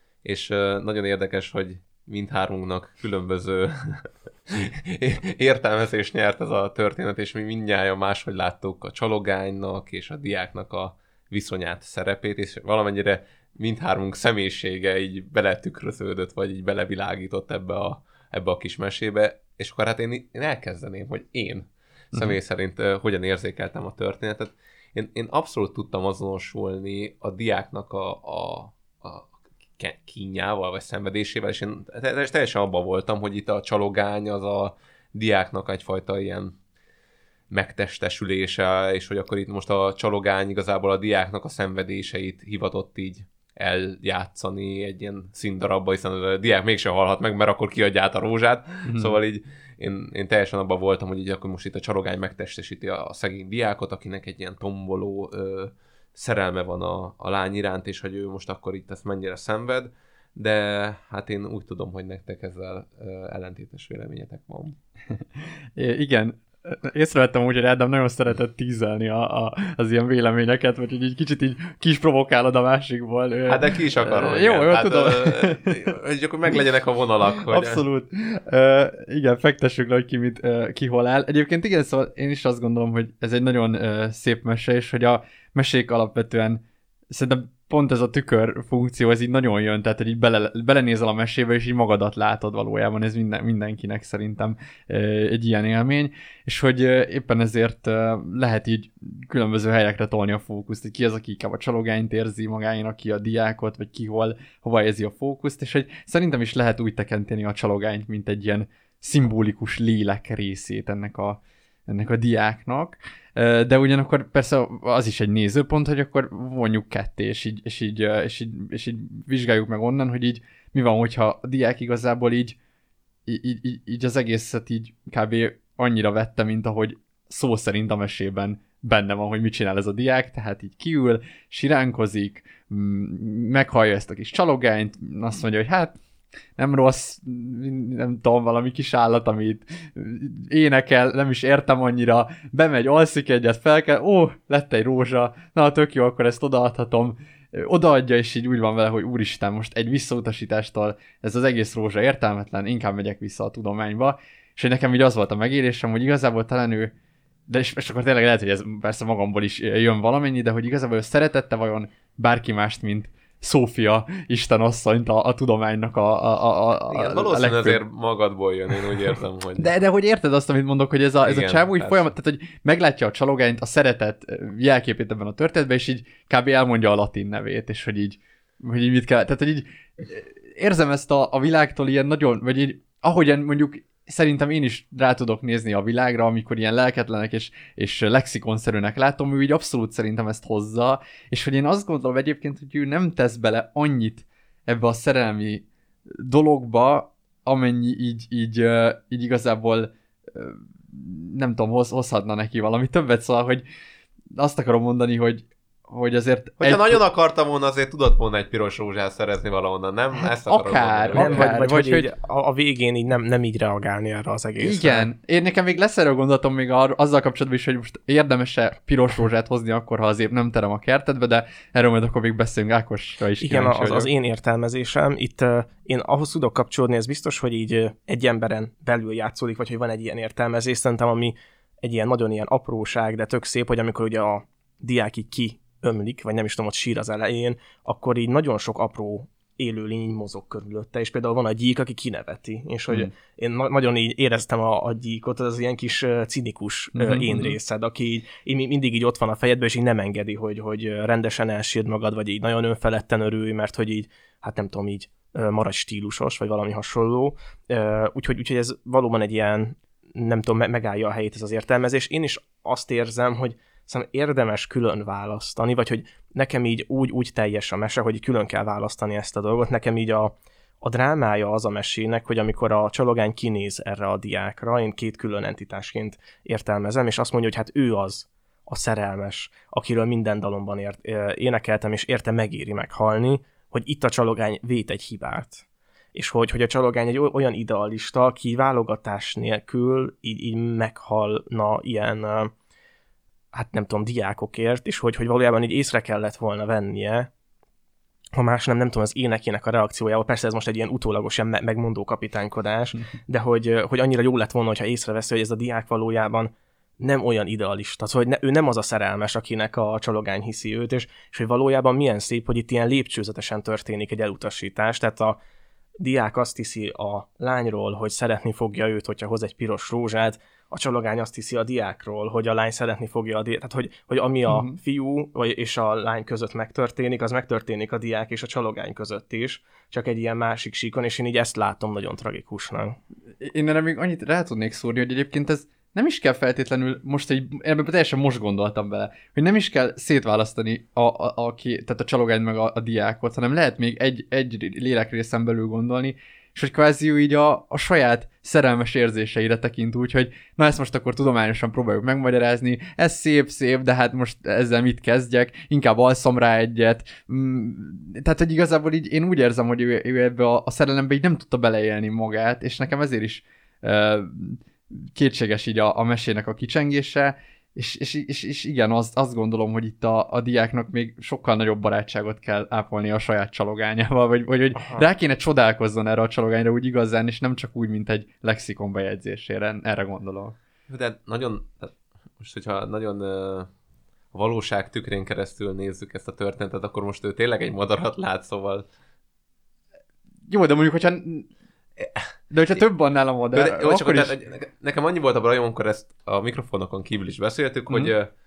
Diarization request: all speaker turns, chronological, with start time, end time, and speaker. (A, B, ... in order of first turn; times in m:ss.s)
0:00.2-0:36.6 A
0:37.5-1:04.8 A
0:48.9-0:49.2 B
1:05.1-1:15.9 B
1:13.5-1:17.8 A
1:17.3-2:02.6 B
2:03.3-2:16.0 B
2:16.6-2:36.9 B
2:37.5-2:47.8 B
2:46.9-2:49.7 A
2:49.6-3:23.6 B
2:51.2-2:52.1 A
3:24.4-3:27.0 B
3:26.6-3:31.5 A
3:30.2-3:32.1 B
3:31.2-3:35.1 C
3:34.6-3:44.1 B
3:43.4-4:52.5 C
4:07.0-4:07.6 B
4:53.5-4:57.3 C
4:58.4-5:15.4 C
5:16.0-5:33.0 C
5:24.5-5:24.8 B
5:33.4-6:20.6 B
6:14.8-6:15.0 C
6:20.9-6:23.7 A
6:24.3-6:28.9 A
6:30.5-6:31.5 B
6:32.0-6:32.3 A
6:32.5-6:34.3 B
6:33.5-6:38.3 A